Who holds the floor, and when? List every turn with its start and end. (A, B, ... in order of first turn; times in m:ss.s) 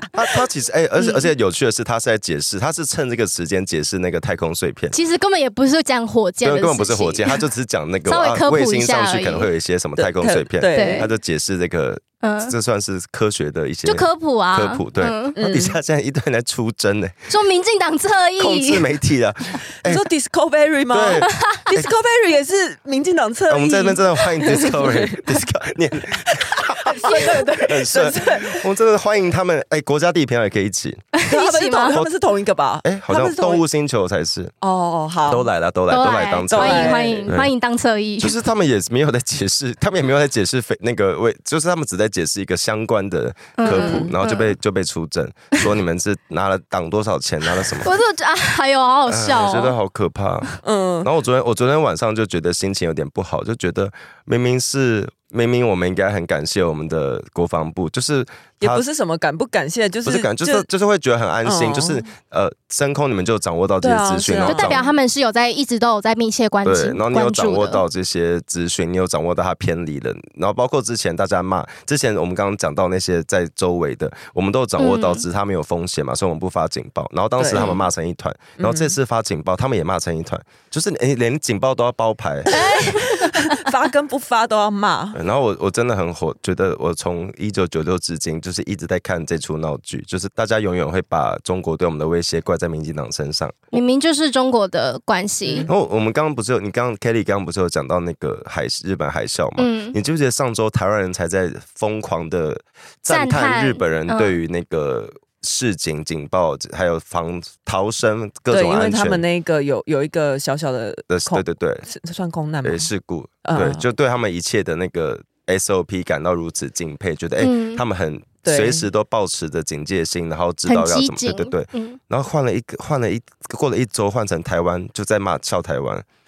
0:00.1-0:04.9 A
0:04.9-0:07.4 B
0:06.4-0:17.3 A
0:08.0-0:09.5 B
0:10.0-0:11.1 C
0:10.7-0:11.1 B
0:12.2-0:12.5 B
0:13.8-0:15.4 B
0:15.4-0:15.8 C
0:17.3-0:18.8 B
0:18.4-0:20.0 A
0:19.8-0:25.4 C
0:20.9-0:21.9 A
0:21.2-0:21.6 B
0:23.5-0:31.1 A
0:26.1-0:28.7 C
0:31.1-0:32.0 B
0:31.3-0:33.6 C
0:32.8-0:34.5 A
0:34.6-0:35.5 C
0:35.3-0:37.5 A
0:35.9-0:38.4 B
0:36.5-0:37.3 C
0:38.2-0:47.9 A
0:43.6-0:44.5 B
0:43.6-0:44.2 C
0:47.8-0:49.8 B
0:49.1-0:50.5 A
0:50.6-0:51.1 C
0:51.0-0:58.8 A
0:58.6-1:00.7 C
1:00.0-1:04.8 A
1:01.4-1:02.0 C
1:03.8-1:04.9 C
1:04.4-1:07.8 B
1:06.6-1:22.6 A
1:14.8-1:15.2 B
1:17.4-1:17.8 C
1:18.6-1:18.9 C
1:22.5-1:23.6 B
1:22.5-1:25.2 C
1:25.1-1:33.6 A
1:33.7-1:35.7 B
1:35.6-1:49.2 A
1:39.6-1:40.0 B
1:43.1-1:44.4 B
1:48.5-1:52.9 C
1:51.1-1:51.9 A
1:52.6-2:06.0 A
1:53.4-1:53.8 C
1:57.4-1:57.8 B
1:58.4-1:58.9 C
2:00.6-2:02.0 B